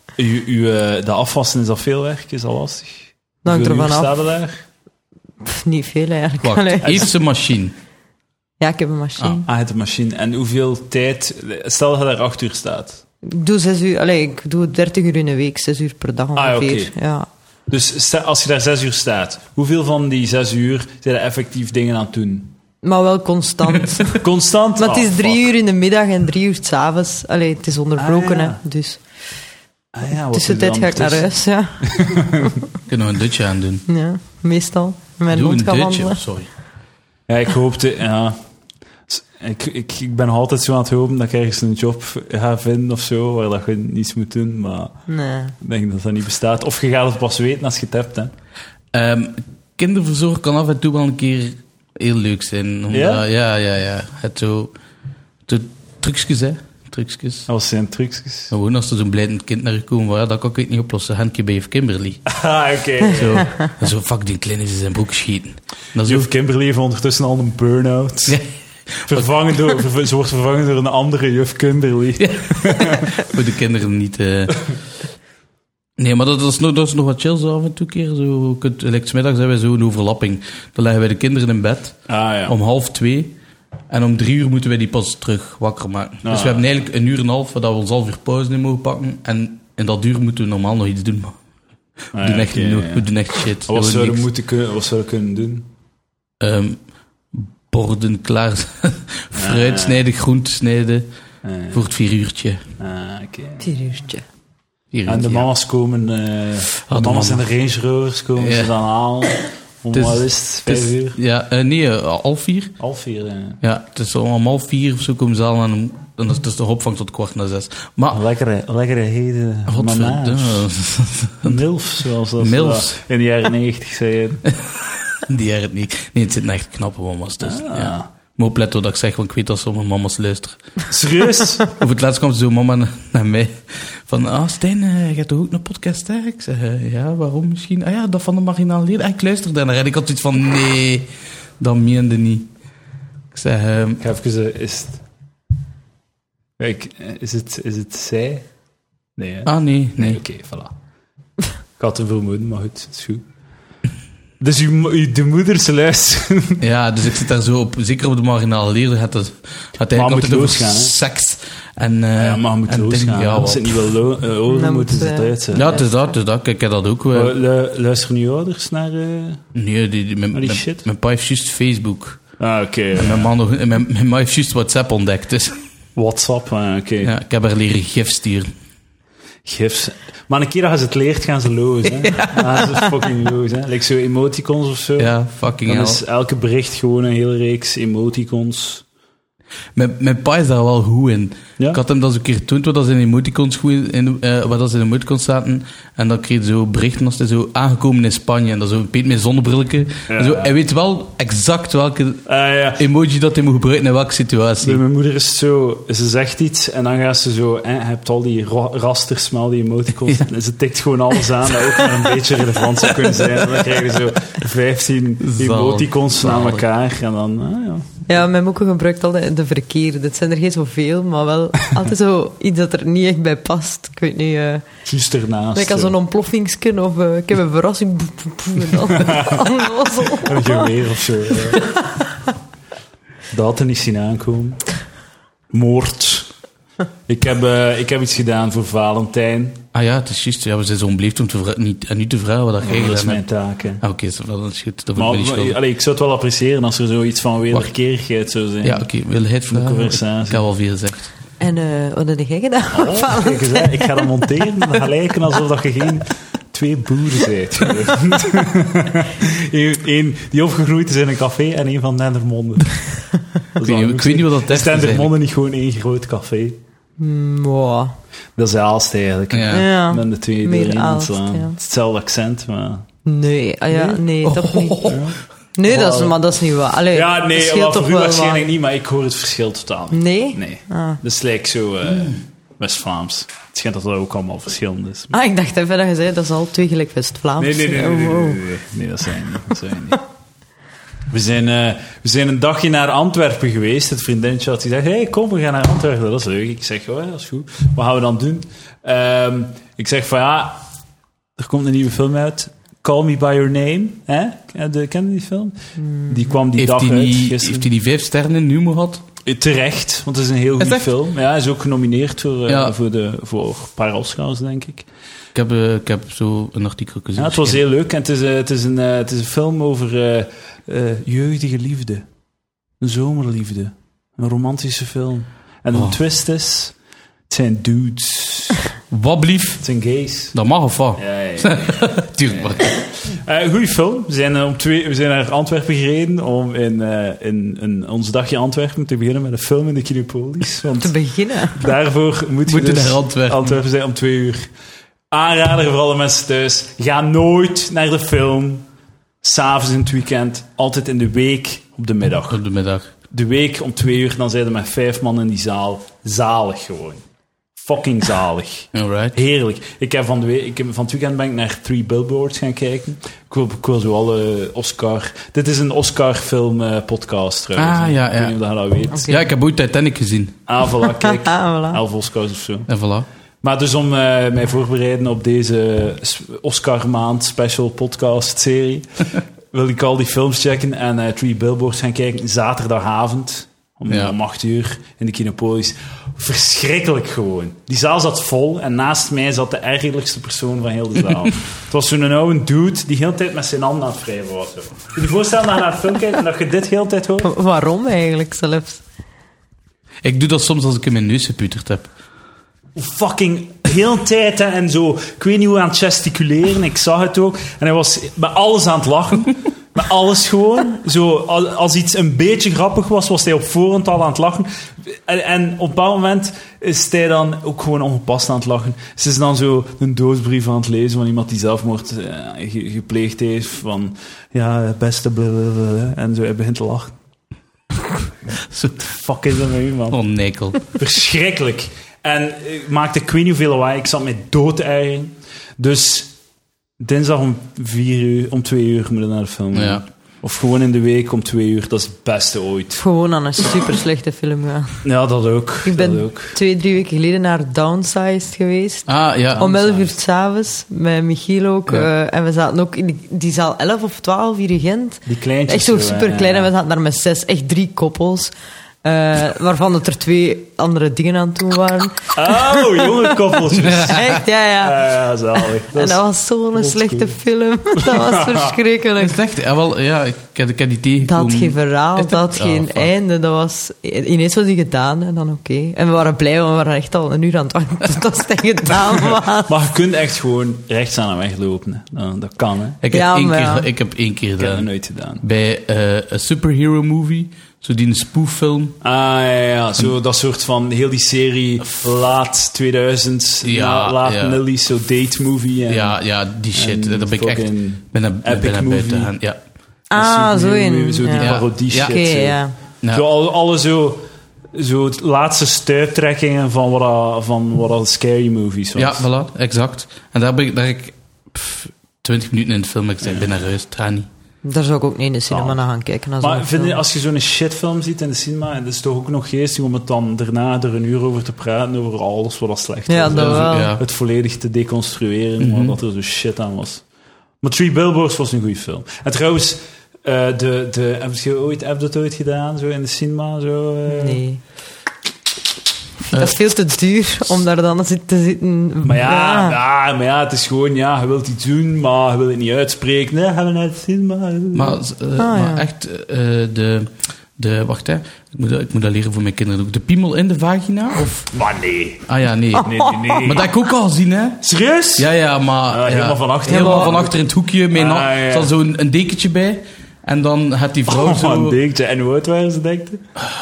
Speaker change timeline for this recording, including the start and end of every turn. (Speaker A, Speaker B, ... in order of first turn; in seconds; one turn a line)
Speaker A: 0.2-4.6
Speaker B: 3.4-4.1
Speaker B: 5.4-7.1
Speaker C: 6.4-7.7
Speaker B: 8.6-9.5
Speaker A: 9.4-13.0
Speaker B: 13.2-17.3
Speaker A: 16.4-16.9
Speaker A: 17.7-22.5
Speaker B: 22.8-24.2
Speaker A: 24.2-25.5
Speaker B: 24.7-29.0
Speaker A: 28.0-28.6
Speaker A: 29.9-31.2
Speaker B: 30.3-32.5
Speaker A: 31.8-32.5
Speaker C: 32.9-33.8
Speaker B: 33.9-36.2
Speaker C: 35.3-36.5
Speaker A: 37.3-38.4
Speaker A: 39.1-45.0
Speaker B: 45.1-45.5
Speaker A: 45.6-48.3
Speaker C: 48.9-54.7
Speaker A: 52.9-53.2
Speaker C: 55.5-57.5
Speaker A: 57.5-58.5
Speaker C: 58.5-62.2
Speaker A: 62.2-63.5
Speaker C: 63.1-66.3
Speaker A: 66.0-68.4
Speaker C: 68.3-69.8
Speaker A: 69.0-73.2
Speaker C: 72.2-74.6
Speaker C: 76.0-83.3
Speaker A: 82.1-82.5
Speaker C: 83.9-91.4
Speaker A: 86.2-86.7
Speaker A: 92.1-93.1
Speaker C: 92.2-94.2
Speaker A: 93.6-95.7
Speaker C: 96.4-96.8
Speaker C: 97.3-101.1
Speaker A: 99.3-100.0
Speaker A: 101.4-101.8
Speaker C: 101.7-102.6
Speaker A: 102.8-103.7
Speaker B: 103.6-104.2
Speaker C: 104.9-105.5
Speaker A: 105.0-111.2
Speaker C: 106.8-107.4
Speaker C: 108.4-108.7
Speaker C: 109.9-112.8
Speaker A: 112.8-113.6
Speaker C: 113.6-118.2
Speaker A: 118.1-120.7
Speaker C: 119.7-121.6
Speaker A: 121.4-124.4
Speaker C: 122.4-123.0
Speaker C: 124.5-130.6
Speaker A: 127.4-128.1
Speaker A: 130.9-131.7
Speaker C: 131.7-142.5
Speaker C: 143.3-144.0
Speaker A: 144.0-145.0
Speaker A: 146.6-148.5
Speaker A: 149.2-150.7
Speaker C: 149.4-150.2
Speaker A: 151.8-153.2
Speaker A: 154.4-156.6
Speaker C: 156.6-163.9
Speaker A: 159.9-160.9
Speaker A: 162.2-165.8
Speaker B: 164.5-166.1
Speaker C: 165.5-167.3
Speaker A: 167.1-169.4
Speaker C: 169.5-172.4
Speaker A: 170.3-170.9
Speaker A: 172.4-173.3
Speaker C: 172.9-175.6
Speaker A: 175.9-177.1
Speaker C: 177.0-178.5
Speaker A: 179.4-188.8
Speaker C: 182.1-182.4
Speaker C: 185.0-186.0
Speaker C: 189.7-202.2
Speaker A: 200.1-200.5
Speaker A: 202.2-202.8
Speaker C: 202.8-204.8
Speaker A: 204.6-218.0
Speaker C: 211.7-212.0
Speaker C: 213.0-213.6
Speaker C: 215.2-216.6
Speaker B: 218.1-224.7
Speaker A: 224.8-225.9
Speaker B: 225.5-230.7
Speaker A: 228.9-229.4
Speaker A: 230.1-231.6
Speaker A: 233.3-234.7
Speaker A: 235.5-236.3
Speaker A: 237.1-239.6
Speaker C: 239.7-243.2
Speaker A: 242.6-243.8
Speaker C: 243.8-245.6
Speaker A: 244.9-248.9
Speaker C: 248.6-251.1
Speaker A: 249.5-250.4
Speaker B: 251.4-254.1
Speaker A: 252.7-266.6
Speaker C: 263.6-265.1
Speaker B: 267.0-267.9
Speaker A: 268.4-272.8
Speaker C: 269.3-269.7
Speaker B: 269.5-271.6
Speaker B: 273.1-275.0
Speaker A: 273.7-274.0
Speaker C: 274.2-275.1
Speaker A: 274.8-276.2
Speaker B: 275.6-278.4
Speaker A: 276.9-285.1
Speaker B: 279.9-281.0
Speaker B: 285.1-288.4
Speaker A: 287.4-290.0
Speaker A: 291.1-300.6
Speaker A: 301.4-307.7
Speaker B: 305.9-306.4
Speaker C: 306.6-309.0
Speaker A: 309.2-314.9
Speaker C: 310.6-310.9
Speaker C: 312.5-312.7
Speaker C: 315.3-317.6
Speaker A: 317.1-322.1
Speaker A: 322.8-326.7
Speaker A: 327.3-328.6
Speaker C: 328.9-329.6
Speaker A: 329.6-330.4
Speaker C: 330.3-332.8
Speaker A: 331.0-340.9
Speaker B: 340.8-341.6
Speaker A: 341.5-344.5
Speaker C: 342.5-343.6
Speaker A: 345.1-348.6
Speaker A: 349.2-352.4
Speaker C: 352.3-352.9
Speaker A: 353.1-357.0
Speaker A: 357.5-369.1
Speaker C: 358.7-359.2
Speaker C: 367.6-368.3
Speaker B: 368.9-369.2
Speaker C: 369.0-370.4
Speaker A: 370.5-372.7
Speaker B: 371.1-371.8
Speaker C: 372.7-373.1
Speaker A: 373.4-378.9
Speaker A: 379.5-397.3
Speaker C: 383.9-384.1
Speaker B: 397.2-398.8
Speaker C: 400.0-401.9
Speaker A: 402.8-426.9
Speaker C: 428.4-428.9
Speaker A: 428.8-430.0
Speaker C: 429.9-430.6
Speaker A: 430.7-436.1
Speaker A: 436.8-442.8
Speaker C: 439.5-439.8
Speaker B: 442.8-444.8
Speaker A: 444.8-446.4
Speaker B: 445.6-458.3
Speaker C: 448.9-449.4
Speaker A: 449.3-449.9
Speaker A: 455.1-456.5
Speaker B: 458.8-462.9
Speaker A: 462.1-466.0
Speaker C: 463.6-464.2
Speaker B: 463.9-464.9
Speaker B: 465.7-469.2
Speaker A: 466.5-467.1
Speaker A: 467.8-468.5
Speaker C: 468.9-472.9
Speaker B: 471.0-479.5
Speaker A: 479.4-482.8
Speaker C: 482.8-484.7
Speaker B: 482.9-483.7
Speaker A: 484.4-485.2
Speaker C: 485.2-488.8
Speaker A: 488.8-496.0
Speaker C: 493.4-494.4
Speaker C: 495.7-499.4
Speaker A: 496.5-499.1
Speaker B: 499.9-502.5
Speaker A: 499.9-502.4
Speaker C: 501.1-502.0
Speaker A: 502.9-509.1
Speaker C: 508.8-514.1
Speaker B: 514.4-516.8
Speaker A: 515.3-515.6
Speaker A: 516.2-526.8
Speaker B: 522.9-523.8
Speaker C: 523.1-523.8
Speaker C: 525.4-525.8
Speaker A: 527.4-534.2
Speaker B: 533.9-534.4
Speaker B: 536.0-539.6
Speaker C: 536.1-536.4
Speaker A: 538.8-544.8
Speaker C: 544.5-551.3
Speaker B: 545.2-545.6
Speaker A: 551.3-553.5
Speaker C: 552.1-554.4
Speaker A: 554.4-555.1
Speaker C: 555.0-561.6
Speaker A: 555.7-557.1
Speaker B: 556.5-556.9
Speaker A: 557.7-558.5
Speaker A: 560.9-563.0